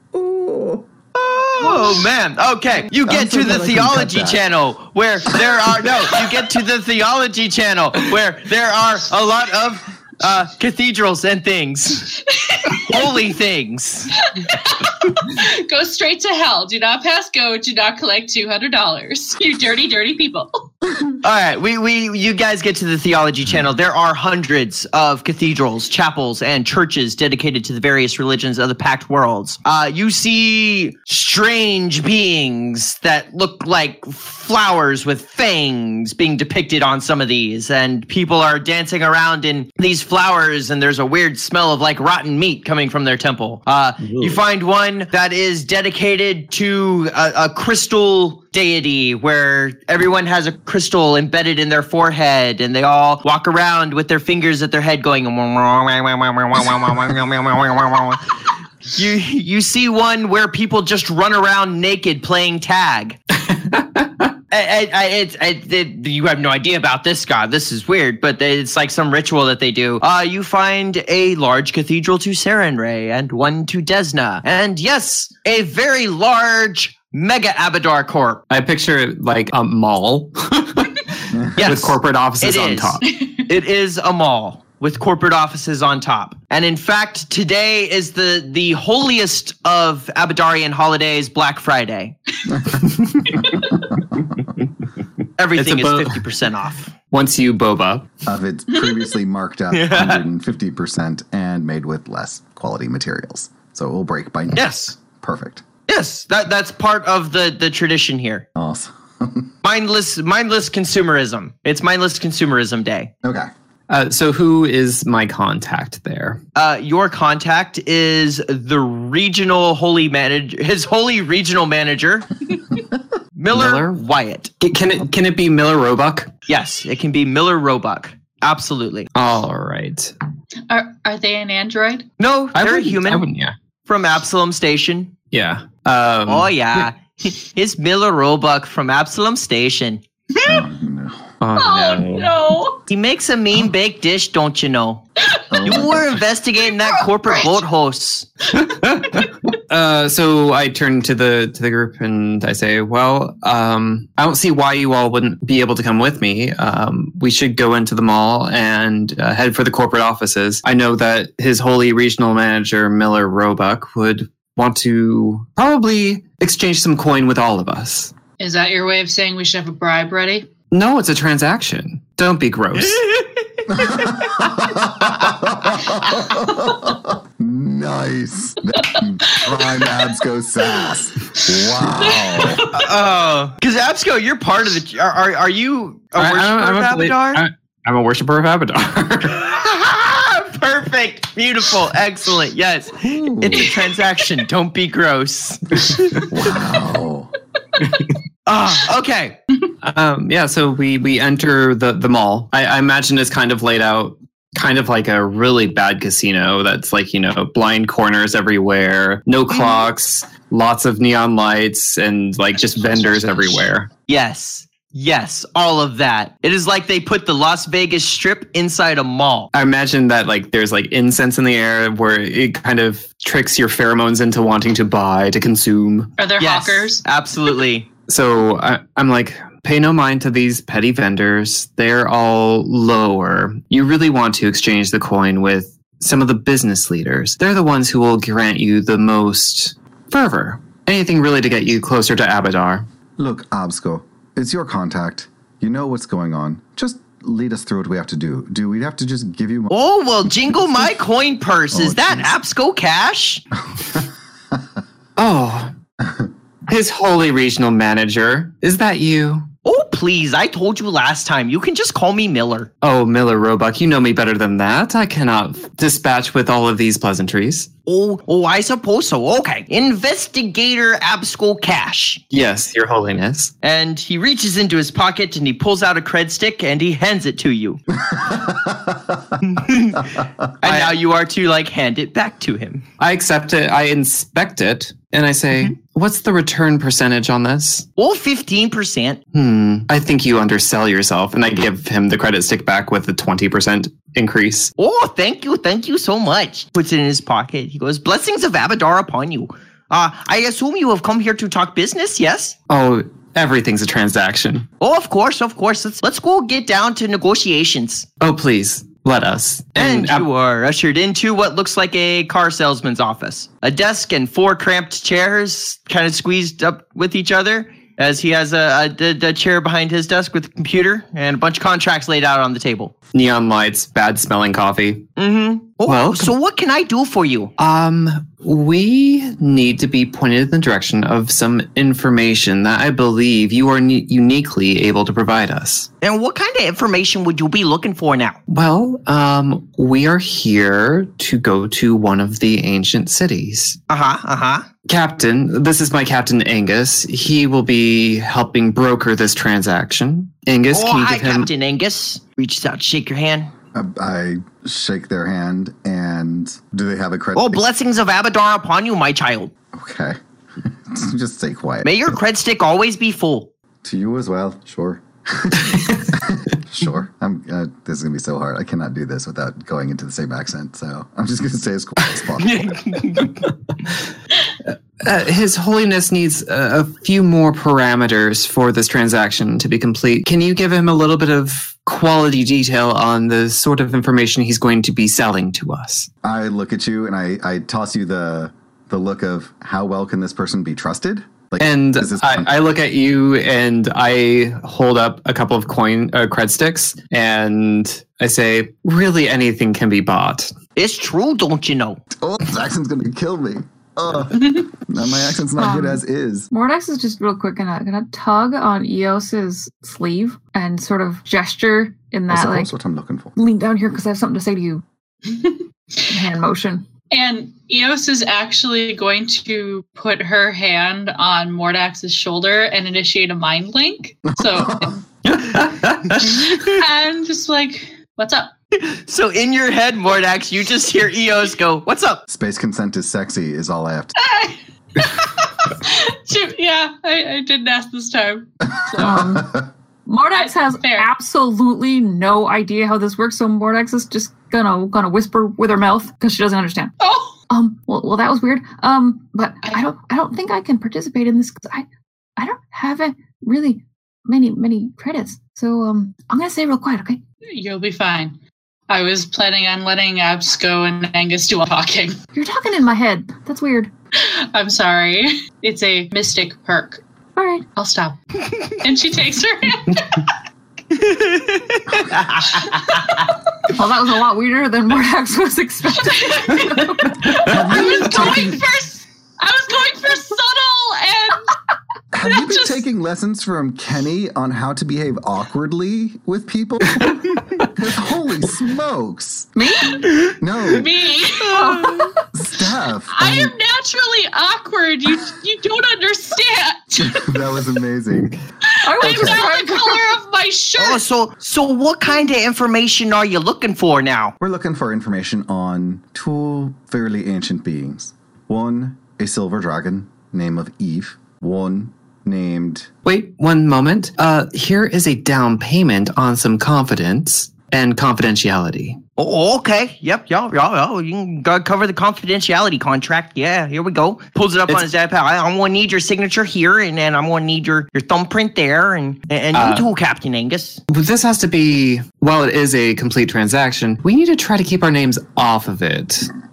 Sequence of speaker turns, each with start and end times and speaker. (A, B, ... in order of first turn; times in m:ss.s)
0:00.1-0:01.9 A
0:01.4-0:12.1 B
0:02.9-0:04.5 A
0:12.3-0:12.8 C
0:12.7-0:14.1 B
0:14.2-0:20.7 C
0:21.2-0:58.2 B
0:44.0-0:44.4 D
0:58.9-1:03.2 B
1:03.5-1:04.3 D
1:04.5-1:18.4 B
1:18.5-1:23.0 D
1:21.6-1:32.2 B
1:23.0-1:23.4 C
1:32.5-1:33.8 A
1:33.4-1:33.7 C
1:35.4-1:36.9 B
1:35.6-1:36.3 D
1:37.1-1:38.1 D
1:38.2-1:45.6 A
1:39.7-1:40.2 B
1:44.5-1:45.0 B
1:45.9-1:48.4 B
1:48.6-1:49.5 A
1:49.6-1:53.1 B
1:53.2-1:53.5 A
1:53.9-1:56.4 D
1:56.6-2:02.3 B
2:03.4-2:04.5 B
2:03.5-2:04.0 D
2:04.6-2:06.3 D
2:06.5-2:09.1 B
2:09.1-2:10.1 D
2:10.7-2:12.1 C
2:12.2-2:13.3 B
2:12.6-2:13.6 D
2:13.9-2:15.1 B
2:15.3-2:16.9 D
2:16.3-2:20.0 B
2:20.3-2:20.6 C
2:20.4-2:21.3 A
2:21.4-2:22.4 D
2:21.6-2:22.8 C
2:22.9-2:25.0 B
2:25.3-2:25.6 C
2:25.5-2:26.2 A
2:25.6-2:28.3 B
2:26.6-2:27.6 C
2:28.6-2:48.1 D
2:29.0-2:29.3 C
2:48.4-2:50.5 C
2:50.7-2:53.1 D
2:52.9-2:53.2 B
2:53.7-3:02.6 A
2:58.8-2:59.9 C
3:01.5-3:02.7 C
3:02.7-3:07.4 B
3:06.2-3:09.5 D
3:09.4-3:16.0 B
3:13.0-3:13.7 A
3:16.3-3:17.3 A
3:18.4-3:19.4 B
3:19.8-3:33.9 D
3:29.5-3:29.8 B
3:34.1-3:39.5 B
3:39.5-3:46.1 D
3:46.2-3:47.0 C
3:46.4-3:47.9 B
3:48.1-4:02.9 D
4:03.2-4:09.7 A
4:09.7-4:13.4 B
4:11.7-4:12.4 A
4:13.8-4:14.1 A
4:15.2-4:15.7 D
4:16.0-4:16.3 A
4:16.7-4:19.5 D
4:19.6-4:22.7 B
4:22.8-4:27.7 D
4:27.9-4:32.2 B
4:32.3-4:33.5 D
4:33.6-4:37.8 B
4:38.0-4:39.4 A
4:39.4-4:42.8 B
4:40.6-4:41.0 D
4:43.0-4:47.9 D
4:48.0-4:49.2 B
4:49.3-4:54.7 D
4:54.8-5:02.6 B
5:02.7-5:04.7 D
5:04.8-5:08.0 B
5:08.2-5:10.3 D
5:09.8-5:22.9 B
5:23.1-5:25.1 D
5:25.2-5:27.5 B
5:25.9-5:26.3 D
5:27.6-5:35.9 D
5:36.0-5:38.4 B
5:38.5-5:43.8 D
5:43.9-5:44.7 B
5:44.9-5:51.5 D
5:50.7-5:53.5 B
5:53.7-5:57.6 A
5:57.4-5:59.5 B
5:59.7-6:01.9 A
6:01.8-6:03.5 B
6:03.8-6:12.6 A
6:12.4-6:13.4 B
6:15.0-6:26.1 D
6:26.2-6:32.5 A
6:31.6-6:40.5 D
6:40.8-6:42.0 B
6:42.1-6:46.5 A
6:45.6-6:52.7 E
6:52.3-6:53.4 A
6:53.4-6:54.8 E
6:55.3-6:56.2 C
6:56.1-6:56.8 E
6:57.1-7:05.0 C
7:04.4-7:05.0 A
7:05.3-7:06.5 D
7:06.1-7:06.6 B
7:06.2-7:08.5 C
7:08.7-7:12.2 B
7:12.3-7:14.2 A
7:14.2-7:19.1 C
7:18.9-7:19.5 E
7:19.0-7:19.6 A
7:20.0-7:26.9 E
7:20.3-7:21.1 C
7:27.0-7:27.4 C
7:27.5-7:37.2 E
7:29.6-7:29.9 C
7:37.5-7:38.4 C
7:38.9-7:42.2 C
7:42.3-7:43.9 E
7:44.1-7:47.0 C
7:47.4-7:47.6 E
7:47.8-7:50.4 C
7:50.9-7:53.2 B
7:52.4-7:53.2 C
7:53.7-7:58.5 E
7:56.1-8:01.6 C
7:57.4-7:58.6 A
8:02.1-8:10.9 A
8:02.2-8:02.8 C
8:10.7-8:12.1 C
8:11.4-8:12.1 E
8:12.3-8:13.5 A
8:13.1-8:17.7 C
8:17.0-8:18.3 A
8:18.6-8:21.0 C
8:18.8-8:20.1 E
8:19.0-8:19.4 A
8:20.8-8:24.3 B
8:24.4-8:32.9 A
8:33.0-8:39.0 D
8:39.2-8:50.8 B
8:49.5-8:49.9 D
8:50.9-8:56.3 D